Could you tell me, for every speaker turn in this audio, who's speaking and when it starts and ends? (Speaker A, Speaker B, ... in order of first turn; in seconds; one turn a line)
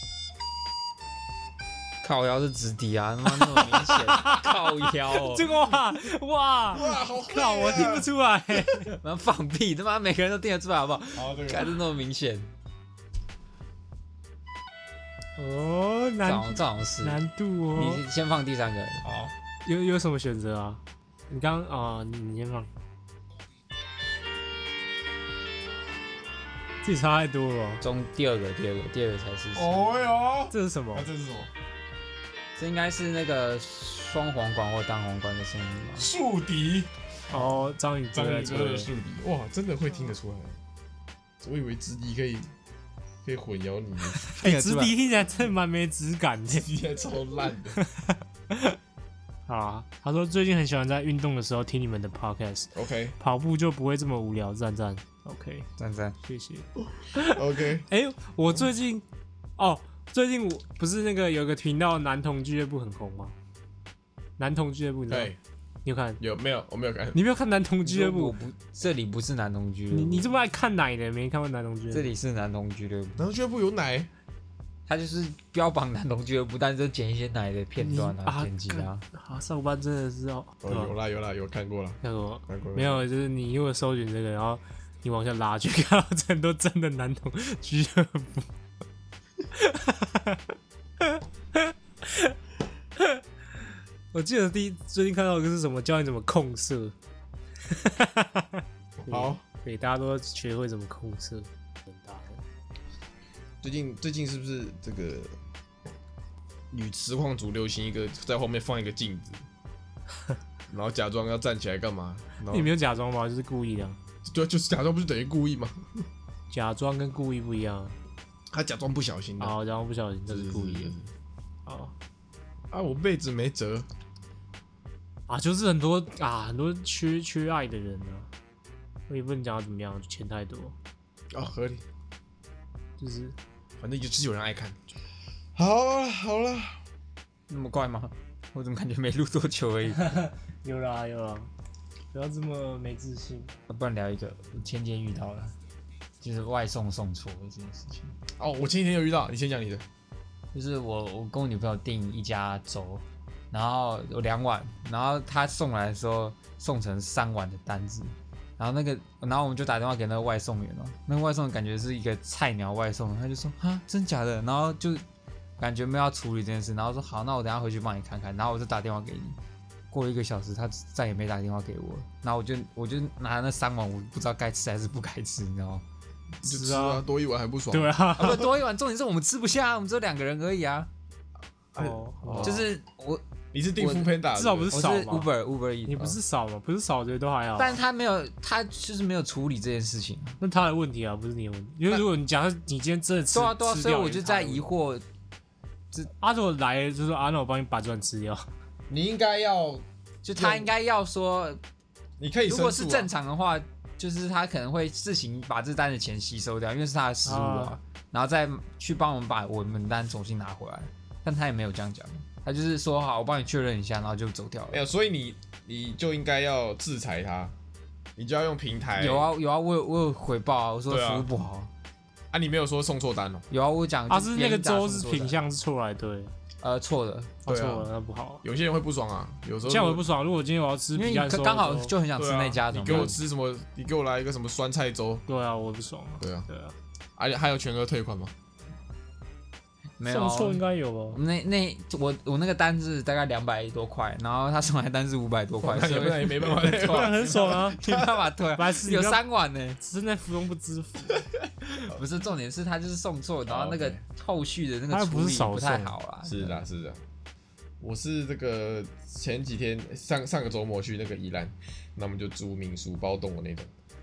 Speaker A: 2.0-5.5
Speaker B: 3.4-8.9
Speaker C: 6.7-8.1
Speaker A: 9.0-12.5
Speaker C: 11.2-11.8
Speaker B: 15.4-18.0
Speaker A: 16.2-17.2
Speaker A: 17.8-19.1
Speaker C: 19.0-19.3
Speaker B: 19.6-22.7
Speaker B: 26.8-27.8
Speaker A: 27.8-29.9
Speaker C: 29.6-31.5
Speaker B: 30.5-31.1
Speaker A: 32.6-36.1
Speaker C: 36.0-36.9
Speaker B: 37.3-38.9
Speaker C: 38.1-40.6
Speaker C: 41.4-42.5
Speaker C: 43.2-44.2
Speaker B: 44.2-46.7
Speaker A: 44.4-45.0
Speaker C: 46.5-47.8
Speaker B: 47.8-48.8
Speaker B: 49.5-55.7
Speaker C: 52.7-53.2
Speaker A: 55.8-56.2
Speaker B: 56.2-59.0
Speaker C: 57.2-57.9
Speaker B: 59.6-63.3
Speaker B: 64.4-65.3
Speaker C: 65.1-65.4
Speaker B: 65.8-66.2
Speaker C: 66.2-67.2
Speaker B: 67.1-68.3
Speaker A: 67.8-70.3
Speaker B: 69.9-72.1
Speaker A: 71.9-73.3
Speaker C: 73.2-74.1
Speaker A: 74.9-79.0
Speaker B: 77.8-81.0
Speaker C: 80.6-83.1
Speaker B: 82.0-88.5
Speaker B: 89.5-90.4
Speaker B: 91.0-92.4
Speaker B: 94.1-97.0
Speaker B: 97.7-102.4
Speaker C: 99.1-99.4
Speaker C: 103.6-105.3
Speaker C: 106.7-109.4
Speaker C: 110.7-112.7
Speaker B: 112.5-114.0
Speaker C: 114.3-115.9
Speaker B: 116.5-118.0
Speaker C: 118.5-119.6
Speaker B: 119.4-121.0
Speaker C: 120.3-121.1
Speaker B: 121.7-121.9
Speaker C: 122.7-123.9
Speaker B: 125.3-128.3
Speaker B: 129.1-130.8
Speaker C: 131.3-131.8
Speaker B: 133.0-133.4
Speaker C: 133.8-134.8
Speaker C: 135.6-136.8
Speaker A: 137.5-140.1
Speaker B: 139.9-141.5
Speaker B: 142.1-143.6
Speaker A: 143.7-145.5
Speaker A: 146.2-148.1
Speaker C: 148.4-149.8
Speaker A: 150.5-165.0
Speaker A: 165.6-169.4
Speaker A: 169.9-175.8
Speaker C: 176.4-178.5
Speaker B: 176.4-177.0
Speaker B: 177.7-178.5
Speaker A: 178.2-180.9
Speaker B: 181.8-182.7
Speaker C: 181.8-182.7
Speaker A: 182.4-183.2
Speaker C: 183.5-184.8
Speaker A: 183.8-184.1
Speaker B: 184.3-185.3
Speaker A: 184.7-186.2
Speaker B: 185.9-187.8
Speaker A: 187.6-190.4
Speaker B: 190.4-194.7
Speaker A: 193.3-195.0
Speaker B: 196.2-198.5
Speaker C: 198.9-200.7
Speaker A: 200.2-201.6
Speaker C: 202.2-203.1
Speaker A: 202.5-214.8
Speaker B: 207.2-207.8
Speaker C: 214.7-217.6
Speaker C: 218.2-219.3
Speaker A: 219.0-221.7
Speaker C: 220.9-221.3
Speaker C: 222.3-223.5
Speaker A: 223.5-225.4
Speaker B: 224.1-226.3
Speaker A: 226.6-227.4
Speaker B: 227.4-228.4
Speaker C: 227.5-227.9
Speaker C: 228.4-230.0
Speaker B: 229.7-231.9
Speaker A: 231.0-233.2
Speaker C: 232.2-235.2
Speaker B: 235.3-236.8
Speaker C: 236.2-236.5
Speaker C: 237.2-238.3
Speaker A: 240.0-249.8
Speaker B: 240.1-241.2
Speaker C: 245.6-248.2
Speaker B: 246.6-247.8
Speaker B: 248.5-249.2
Speaker B: 249.8-251.3
Speaker C: 251.2-252.0
Speaker A: 251.8-256.6
Speaker C: 253.5-254.0
Speaker B: 254.9-255.9
Speaker C: 256.2-257.0
Speaker C: 257.8-263.7